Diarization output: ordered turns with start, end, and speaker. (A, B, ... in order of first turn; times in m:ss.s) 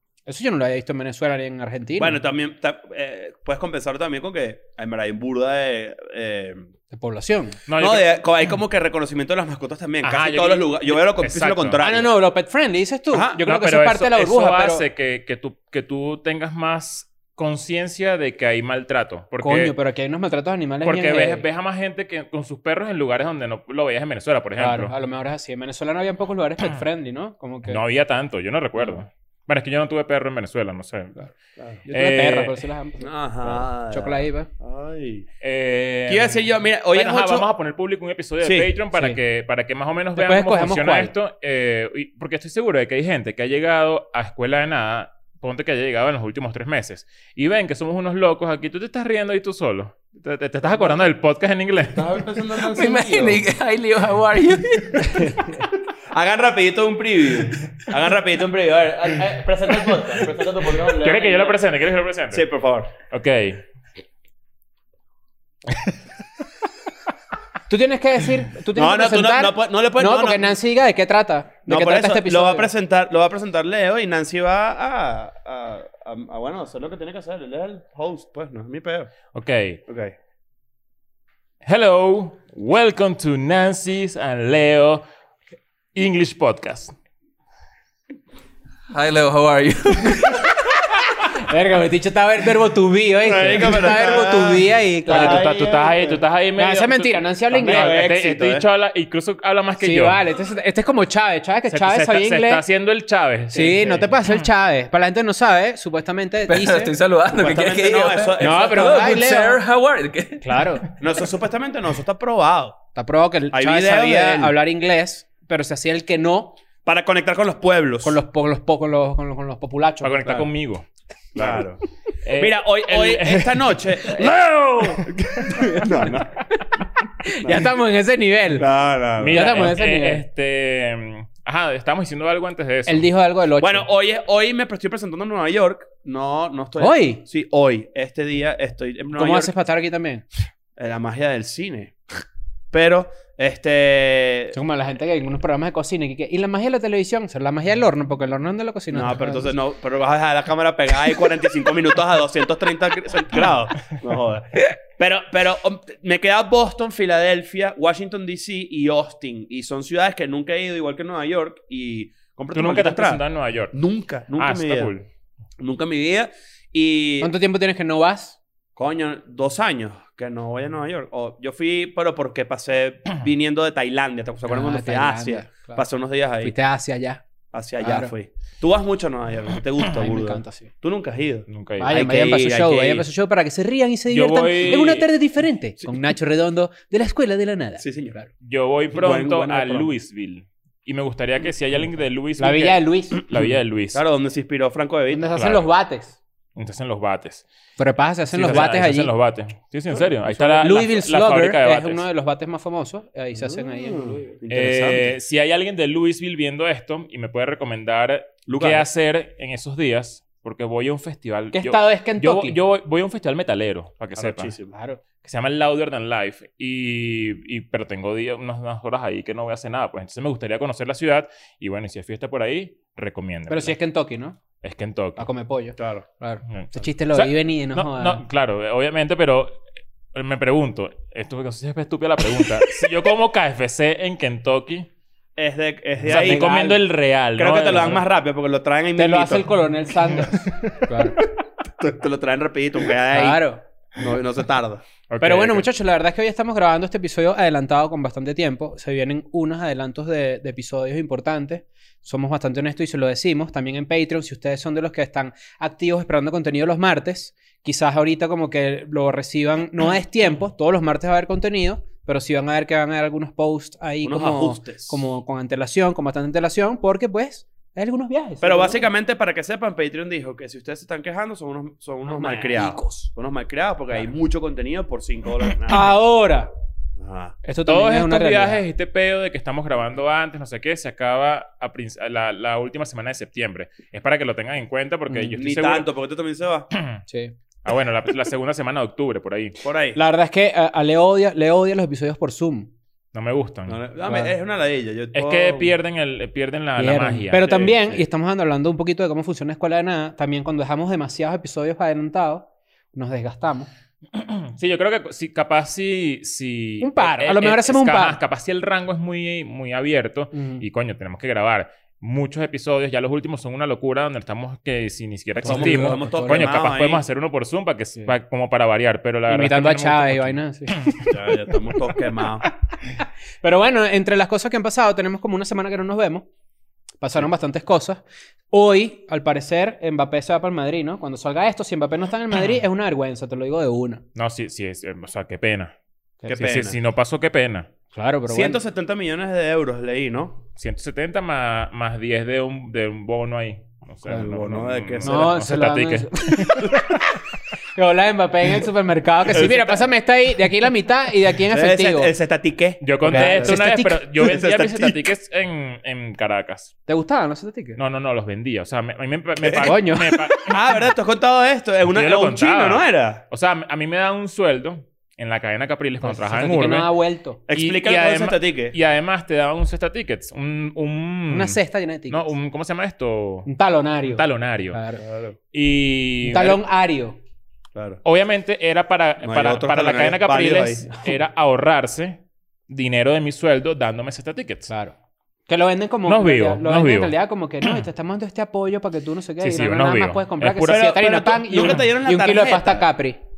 0:00.3-0:02.2 A
0:02.0-0:06.7 B
0:06.9-0:07.6 A
0:07.7-0:08.2 C
0:07.8-0:12.1 B
0:10.0-0:11.9 C
0:11.8-0:14.8 A
0:13.1-0:13.4 B
0:13.4-0:19.8 C
0:19.4-0:21.4 A
0:20.8-0:24.9 C
0:24.6-0:27.8 A
0:26.6-0:26.8 C
0:27.7-0:31.3 C
0:31.9-0:34.5 A
0:31.9-0:32.6 C
0:33.0-0:35.3 B
0:35.4-0:52.1 C
0:36.1-0:37.5 B
0:38.4-0:38.7 B
0:38.9-0:39.2 A
0:40.2-0:41.1 A
0:51.9-0:53.4 B
0:52.5-0:55.4 D
0:55.2-1:01.6 B
1:00.8-1:02.4 C
1:02.3-1:02.9 B
1:03.1-1:03.6 C
1:07.7-1:12.7 A
1:08.7-1:10.6 B
1:11.7-1:19.1 B
1:19.3-1:19.8 C
1:19.9-1:20.2 B
1:21.6-1:25.0 C
1:25.9-1:26.9 C
1:28.9-1:30.7 D
1:31.4-1:35.5 A
1:33.2-1:36.2 B
1:35.1-1:40.2 C
1:36.6-1:38.0 A
1:37.5-1:38.7 B
1:39.8-1:42.6 A
1:41.7-1:44.4 C
1:43.5-1:46.9 A
1:46.5-1:50.9 D
1:47.3-1:49.0 B
1:48.4-1:49.6 A
1:50.4-1:50.9 A
1:51.0-1:52.8 B
1:53.0-1:56.6 A
1:53.5-1:54.6 B
1:56.8-1:58.2 B
1:58.0-2:00.4 A
2:00.0-2:01.7 C
2:01.4-2:01.8 B
2:02.2-2:05.1 C
2:02.4-2:04.5 B
2:04.8-2:06.0 A
2:05.1-2:06.4 B
2:07.2-2:08.7 A
2:07.4-2:07.7 B
2:08.6-2:09.7 B
2:09.2-2:13.1 C
2:09.3-2:10.2 A
2:12.9-2:13.9 A
2:13.6-2:19.5 B
2:16.8-2:17.2 A
2:19.2-2:20.2 A
2:20.8-2:24.6 B
2:24.5-2:29.6 A
2:28.9-2:44.9 B
2:42.5-2:43.8 C
2:44.4-2:45.1 C
2:45.6-2:47.3 B
2:47.2-2:48.4 A
2:48.8-2:56.6 B
2:54.5-2:55.8 A
2:56.4-2:57.2 A
2:57.5-3:03.1 B
2:57.8-2:58.1 A
2:59.8-3:00.7 A
3:01.5-3:01.9 C
3:01.8-3:08.3 A
3:04.1-3:05.1 C
3:07.8-3:08.2 B
3:08.4-3:14.0 C
3:08.9-3:09.9 B
3:12.4-3:13.2 A
3:13.3-3:15.3 B
3:15.1-3:16.2 A
3:15.4-3:15.7 C
3:16.6-3:17.4 C
3:17.8-3:19.1 A
3:18.3-3:22.0 C
3:18.4-3:18.7 B
3:19.9-3:20.7 B
3:20.6-3:24.4 A
3:23.4-3:25.1 B
3:24.5-3:34.5 C
3:28.5-3:28.9 B
3:31.5-3:32.6 A
3:34.2-3:34.7 B
3:34.7-3:35.0 A
3:35.2-3:43.8 C
3:43.5-3:44.4 A
3:44.6-3:45.2 C
3:45.2-3:48.2 A
3:45.8-3:46.0 B
3:46.5-3:49.6 C
3:50.1-3:54.9 C
3:55.4-3:56.4 B
3:56.0-3:58.0 C
3:56.1-3:56.8 A
3:57.4-3:59.5 B
3:59.0-4:01.2 A
4:01.8-4:03.4 B
4:03.1-4:03.6 A
4:04.0-4:04.8 B
4:05.1-4:05.7 C
4:05.2-4:28.9 A
4:24.0-4:25.0 B
4:28.4-4:35.9 B
4:32.0-4:33.1 A
4:35.7-4:36.5 A
4:37.0-4:37.4 B
4:37.4-4:38.6 A
4:37.7-4:45.9 C
4:45.1-4:45.4 A
4:45.4-4:46.7 B
4:46.7-4:47.0 C
4:47.1-4:47.4 A
4:47.6-4:49.6 C
4:49.6-4:50.0 B
4:50.0-4:52.7 A
4:53.1-4:53.8 C
4:53.7-4:55.7 B
4:54.1-4:54.3 A
4:55.2-4:57.7 C
4:56.8-5:03.7 A
4:57.4-4:58.0 B
5:04.1-5:21.1 C
5:06.8-5:08.2 A
5:10.3-5:10.6 A
5:15.4-5:16.5 A
5:15.4-5:17.0 B
5:19.3-5:21.1 A
5:21.1-5:22.4 B
5:23.0-5:26.3 A
5:27.0-5:34.0 A
5:34.2-5:35.7 C
5:36.3-5:36.8 B
5:36.3-5:37.7 C
5:37.9-5:38.6 A
5:38.3-5:40.4 B
5:40.6-5:46.7 C
5:44.1-5:45.4 B
5:45.0-5:47.0 A
5:47.8-5:52.1 A
5:49.3-5:49.9 B
5:51.5-5:53.6 B
5:52.8-5:56.7 C
5:53.0-5:54.3 A
5:54.2-5:55.1 B
5:56.9-5:57.8 A
5:57.8-6:00.6 C
5:59.4-5:59.7 B
5:59.6-6:00.5 A
6:00.4-6:03.2 B
6:01.9-6:06.9 C
6:06.0-6:07.4 A
6:07.5-6:08.8 B
6:07.5-6:13.5 C
6:11.3-6:12.3 A
6:13.5-6:15.0 A
6:14.2-6:14.8 C
6:15.0-6:15.4 B
6:15.5-6:16.6 C
6:16.3-6:17.2 A
6:17.8-6:18.0 B
6:18.0-6:24.7 C
6:19.2-6:20.9 B
6:24.7-6:25.0 A
6:25.5-6:33.2 A
6:26.1-6:27.8 C
6:29.4-6:30.8 C
6:30.7-6:32.9 B